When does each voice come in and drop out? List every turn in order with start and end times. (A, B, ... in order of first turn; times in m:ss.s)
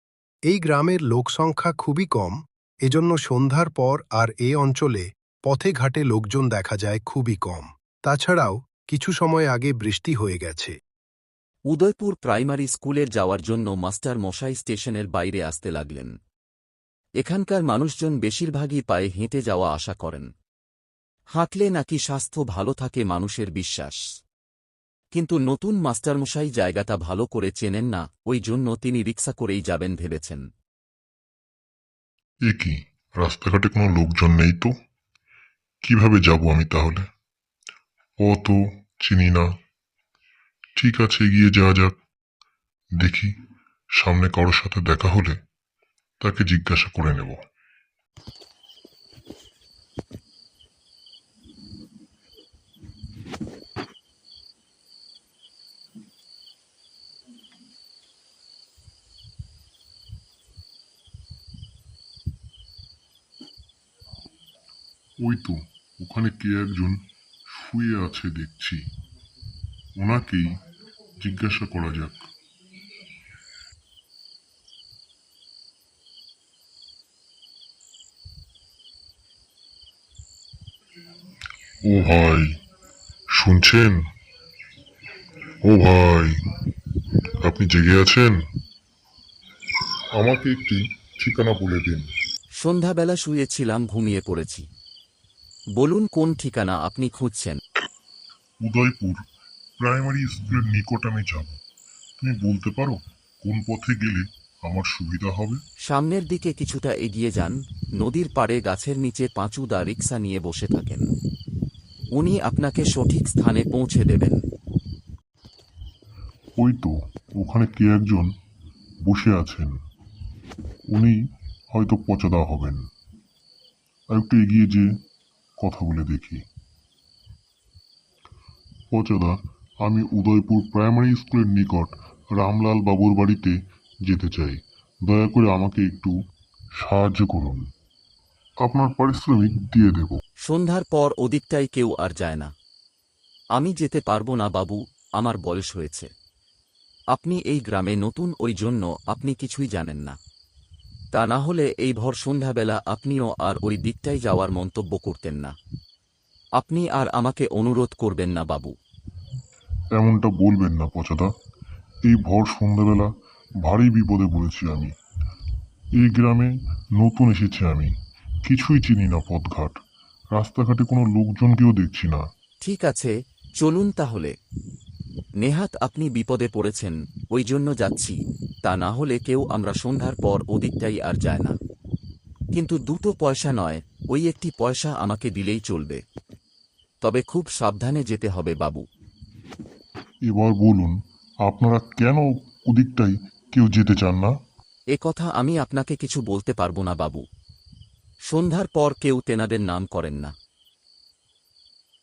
0:00.5-0:10.7 A
0:11.7-0:16.1 B
0:17.2-0:20.3 B
0:21.4-0:24.0 B
0:25.1-0:30.4 B
0:32.5-0:34.7 C
0:35.8-0:37.1 C
0:38.2-0:39.5 C
0:40.8-0:41.9 C
0:43.0-0:43.3 C
0:44.0-0:45.4 C
0:46.2-0:47.4 C
1:05.2-1:08.8 C
1:10.0-1:10.5 C
1:11.2-1:12.3 C
1:21.8-1:22.6 C
1:23.3-1:24.0 C
1:25.6-1:26.4 C
1:27.4-1:28.4 C
1:30.1-1:32.1 C
1:32.6-1:34.6 B
1:35.8-1:37.6 B
1:38.6-1:39.2 C
1:39.8-1:41.6 C
1:42.2-1:45.6 C
1:45.8-1:51.0 B
1:52.1-1:54.4 B
1:56.6-1:58.3 C
1:59.0-1:59.8 C
2:01.7-2:02.8 C
2:04.1-2:04.9 C
2:05.6-2:06.4 C
2:08.9-2:13.5 C
2:14.0-2:16.1 C
2:16.8-2:17.6 C
2:18.6-2:20.2 C
2:20.4-2:22.5 B
2:23.5-2:26.1 B
2:27.1-2:30.2 B
2:31.1-2:35.5 B
2:36.6-2:38.7 B
2:40.0-2:41.3 C
2:42.0-2:43.1 C
2:43.6-2:44.9 C
2:46.0-2:47.9 C
2:48.4-2:49.8 C
2:50.3-2:52.2 C
2:52.6-2:54.3 B
2:55.4-3:01.5 B
3:02.5-3:06.0 B
3:07.0-3:08.8 B
3:10.3-3:14.3 C
3:14.9-3:17.2 B
3:18.3-3:20.3 B